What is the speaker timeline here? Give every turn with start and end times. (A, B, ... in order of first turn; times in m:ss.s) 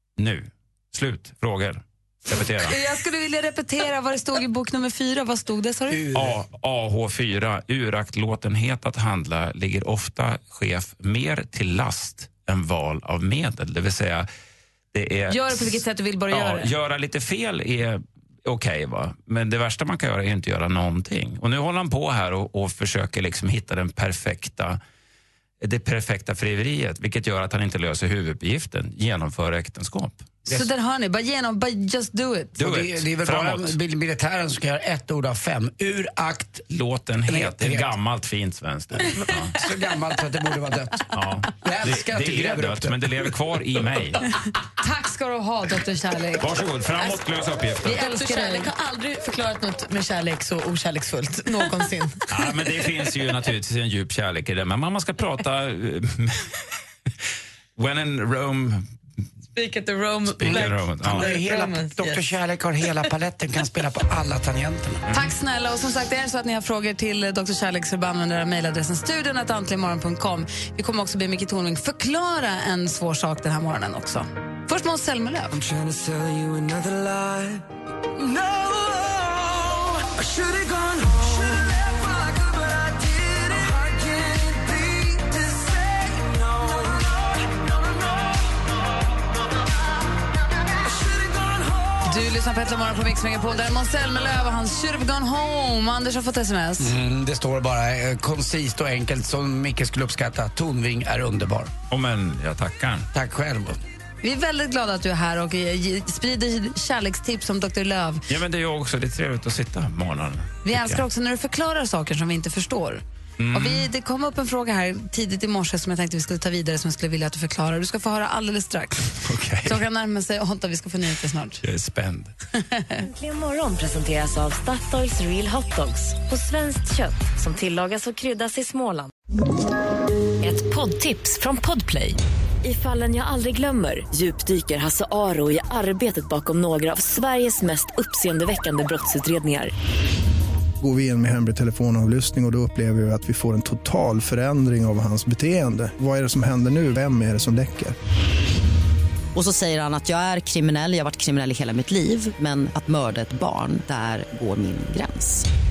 0:00.2-0:02.8 A
0:02.3-0:06.1 B
0:05.9-0:06.3 C
0:06.1-0:14.3 A
0:14.9-0:24.8 A
0:15.3-0:16.7 B
0:25.6-0:30.3 A
0:30.5-0:32.6 B
0:32.6-0:33.8 A
0:32.6-0:36.7 C
0:36.7-0:39.6 A
0:37.3-0:37.9 C
0:39.6-0:43.0 C
0:41.1-0:44.2 A
0:44.8-0:46.5 B
0:46.4-0:48.0 A
0:47.8-0:52.7 D
0:47.8-0:48.7 B
0:52.3-0:56.6 A
0:57.8-0:58.9 A
0:59.5-1:02.3 D
1:00.4-1:01.3 A
1:00.5-1:05.0 C
1:05.1-1:15.6 B
1:15.5-1:17.6 E
1:18.2-1:28.4 E
1:30.8-1:32.3 E
1:32.0-1:36.9 B
1:36.8-1:41.7 C
1:41.9-1:43.1 A
1:43.1-1:43.8 C
1:44.2-1:48.2 B
1:48.3-1:51.0 A
1:50.6-1:53.0 B
1:53.4-1:53.9 A
1:53.5-2:01.6 B
1:59.2-1:59.8 A
2:01.6-2:02.3 A
2:02.6-2:03.0 B
2:03.0-2:09.1 F
2:10.4-2:19.7 F
2:20.8-2:28.0 G
2:29.4-2:35.4 H